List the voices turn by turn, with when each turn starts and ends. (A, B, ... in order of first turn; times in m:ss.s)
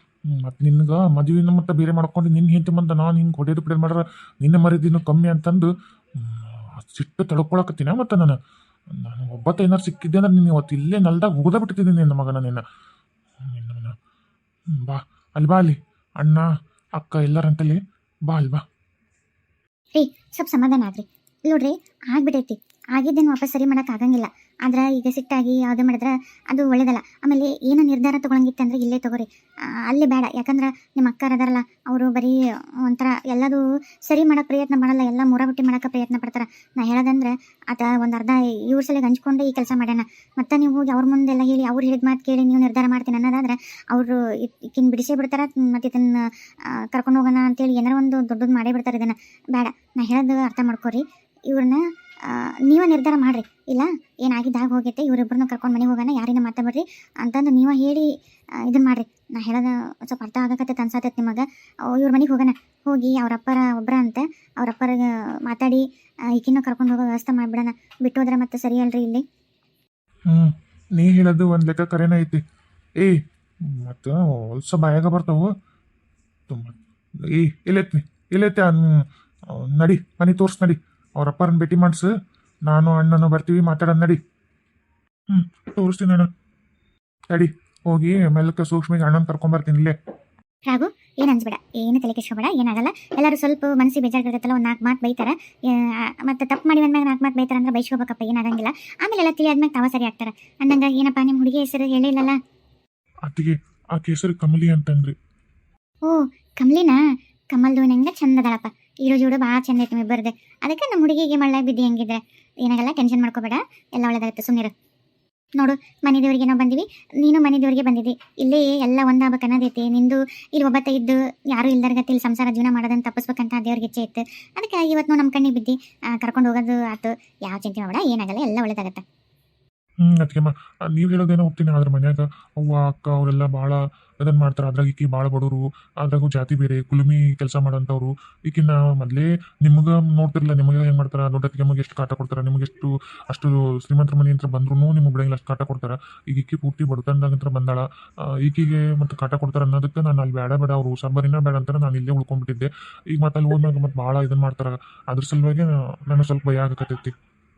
0:00.3-0:08.4 A
0:08.9-0:12.6 A
0:13.4-0:14.0 A
0:14.7-0:18.6 A
0:19.9-1:09.2 B
1:10.3-1:12.4 A
1:13.0-1:15.5 A
1:16.5-1:22.1 A
1:22.7-1:24.2 A
1:25.3-1:26.3 A
1:27.3-1:29.9 A
1:30.7-1:42.4 B
1:43.2-1:45.1 A
1:46.0-1:47.0 B
1:47.5-1:54.7 B
1:55.6-2:09.0 B
2:10.0-2:37.1 A